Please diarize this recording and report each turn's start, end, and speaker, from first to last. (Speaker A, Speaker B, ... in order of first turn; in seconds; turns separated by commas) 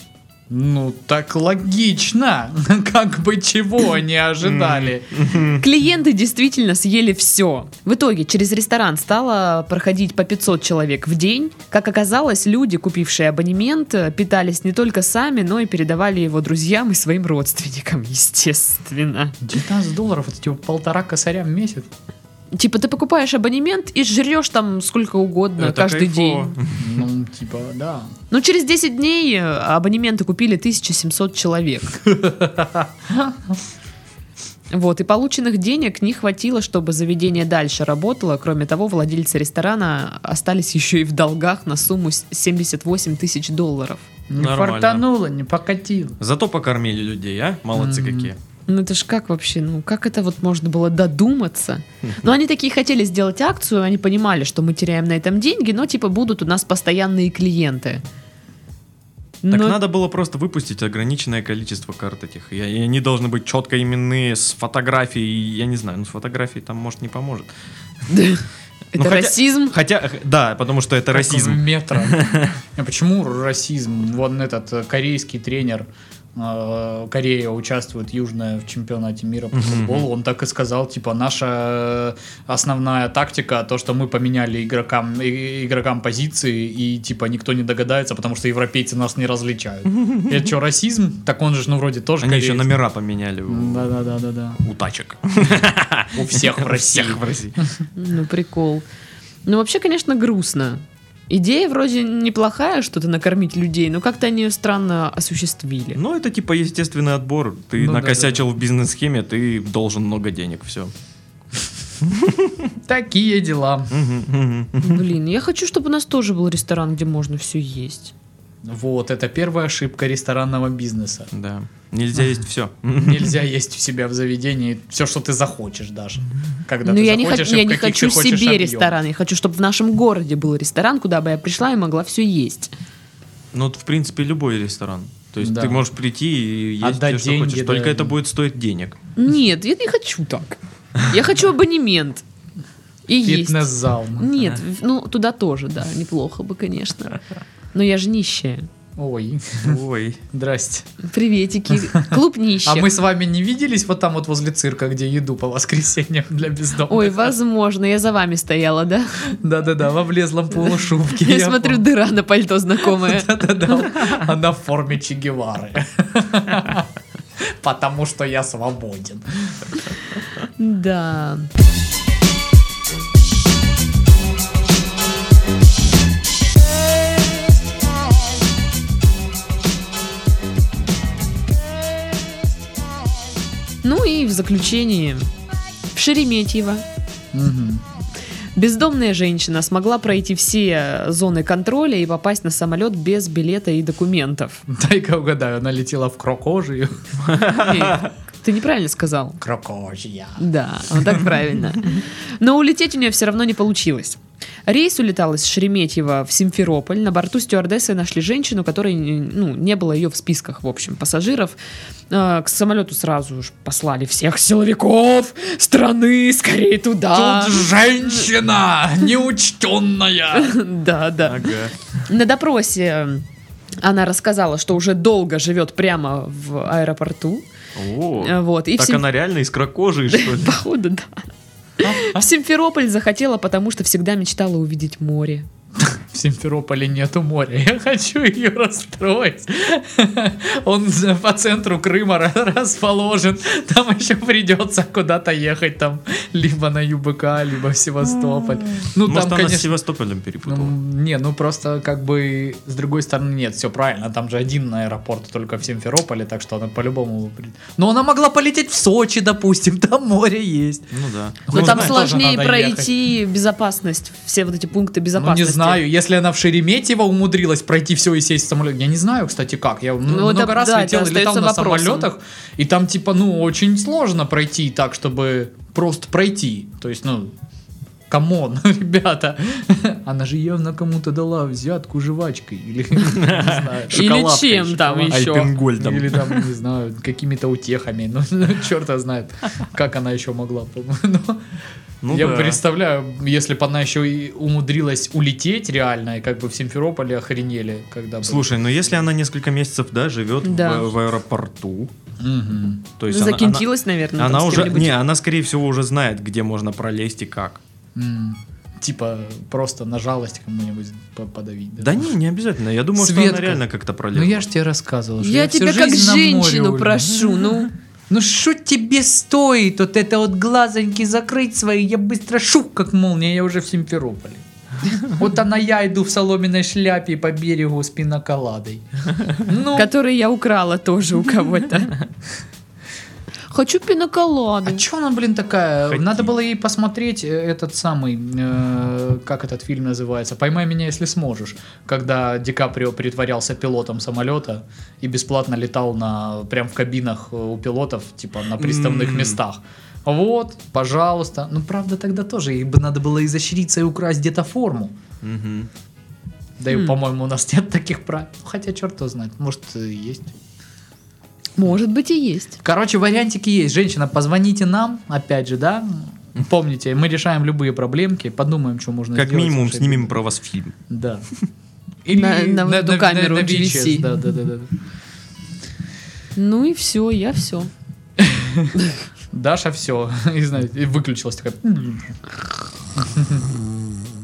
Speaker A: 0.5-5.2, Speaker B: 4.4-5.6, Speaker C: 5.5-19.4, Speaker A: 19.4-21.9, Speaker C: 22.5-26.6, Speaker B: 25.6-27.0, Speaker A: 26.8-28.1, Speaker C: 28.3-32.0, Speaker A: 32.1-33.4, Speaker C: 34.7-44.1, Speaker A: 44.3-46.2, Speaker B: 44.4-45.1, Speaker B: 46.2-48.4, Speaker A: 47.8-48.3, Speaker C: 48.7-58.0, Speaker C: 59.4-59.8, Speaker B: 59.5-67.5, Speaker C: 68.1-69.8, Speaker B: 69.0-72.6, Speaker A: 71.1-92.7, Speaker B: 79.5-80.1, Speaker B: 89.9-90.4, Speaker B: 92.2-93.9, Speaker A: 93.5-94.6, Speaker B: 94.6-97.6, Speaker A: 96.1-97.8, Speaker C: 98.0-98.8, Speaker C: 99.5-106.0, Speaker B: 106.0-110.9, Speaker A: 107.8-108.4, Speaker B: 112.0-112.7, Speaker A: 112.9-113.9, Speaker B: 113.9-115.0, Speaker C: 114.8-118.1, Speaker A: 118.6-121.3, Speaker B: 121.3-123.3, Speaker A: 123.0-129.0, Speaker C: 126.8-132.7, Speaker B: 133.5-139.0, Speaker A: 135.4-135.8, Speaker A: 136.8-138.2, Speaker C: 139.2-142.2, Speaker C: 143.1-147.2, Speaker A: 143.2-144.3, Speaker C: 147.7-148.7, Speaker A: 149.0-149.8, Speaker B: 149.6-150.2, Speaker A: 150.3-150.9, Speaker C: 151.1-152.9, Speaker A: 151.7-157.3, Speaker C: 156.9-159.4, Speaker A: 159.3-161.8, Speaker C: 161.1-164.1, Speaker A: 162.9-166.9, Speaker A: 167.4-169.7, Speaker C: 170.6-171.5, Speaker C: 183.8-185.3, Speaker C: 185.9-186.8, Speaker A: 187.3-187.8, Speaker C: 188.6-194.6, Speaker A: 194.7-197.1, Speaker B: 197.2-198.1, Speaker C: 197.5-199.4, Speaker A: 199.4-200.5, Speaker C: 200.4-211.6, Speaker C: 212.1-218.3, Speaker A: 217.1-220.6, Speaker C: 220.3-221.5, Speaker B: 221.2-221.8, Speaker C: 222.1-223.3, Speaker C: 223.8-227.4, Speaker B: 227.8-230.6, Speaker C: 228.2-229.0, Speaker C: 230.1-231.3, Speaker A: 231.8-232.2, Speaker C: 231.8-235.5, Speaker A: 235.8-249.7, Speaker B: 249.0-250.8, Speaker A: 250.5-260.9, Speaker B: 260.9-262.0, Speaker A: 261.5-262.9, Speaker C: 261.5-265.8, Speaker A: 265.2-277.3, Speaker C: 270.1-272.1, Speaker A: 278.1-291.4, Speaker B: 283.0-286.5, Speaker C: 283.9-285.5, Speaker B: 292.0-292.6, Speaker A: 292.1-299.0, Speaker B: 298.2-301.9, Speaker C: 300.4-300.9, Speaker A: 302.2-302.9, Speaker B: 303.0-303.7, Speaker C: 303.1-305.0, Speaker B: 304.2-307.6, Speaker A: 307.9-312.1, Speaker B: 311.8-314.4, Speaker A: 313.0-317.4, Speaker C: 315.2-317.7, Speaker A: 318.1-324.4, Speaker A: 325.0-329.9, Speaker C: 329.7-332.1, Speaker C: 333.5-334.8, Speaker A: 334.6-355.0, Speaker B: 335.9-336.3, Speaker B: 348.6-349.4, Speaker B: 355.2-355.7, Speaker A: 356.6-360.3, Speaker C: 361.6-362.6, Speaker A: 362.6-370.2, Speaker B: 369.1-370.8, Speaker A: 370.9-371.3, Speaker A: 372.1-374.7, Speaker C: 372.1-374.1, Speaker C: 376.4-377.7, Speaker A: 378.2-378.7, Speaker A: 379.3-382.2, Speaker A: 383.0-383.5